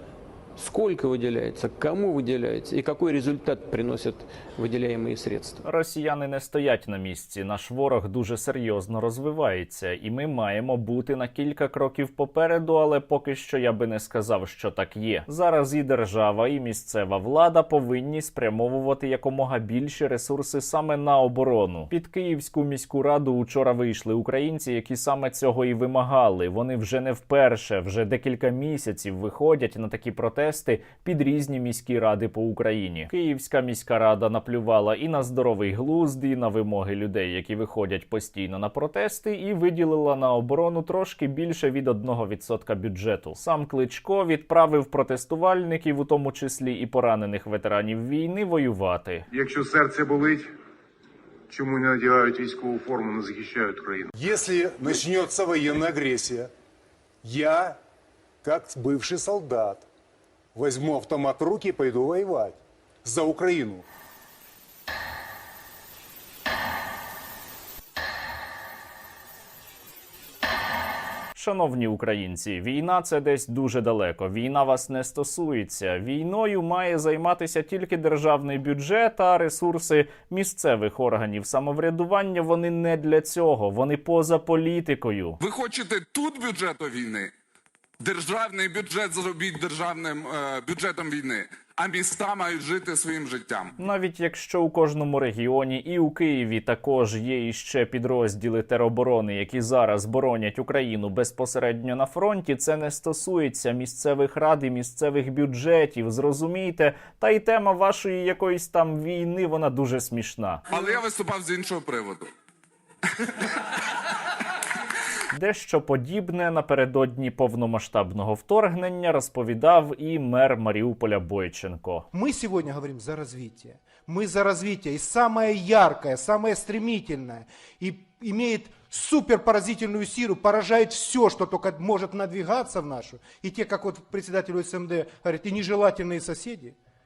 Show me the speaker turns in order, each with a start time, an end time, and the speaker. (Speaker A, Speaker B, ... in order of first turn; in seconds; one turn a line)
Speaker A: 0.6-5.6
Speaker B: 5.6-49.2
Speaker C: 49.3-50.5
Speaker C: 51.5-54.1
Speaker D: 54.1-56.5
Speaker D: 57.2-57.8
Speaker D: 58.4-59.9
Speaker D: 60.5-63.8
Speaker B: 71.4-85.4
Speaker E: 85.4-87.3
Speaker E: 88.0-93.7
Speaker B: 93.8-110.6
Speaker E: 110.7-112.3
Speaker B: 115.3-122.1
Speaker F: 122.1-136.8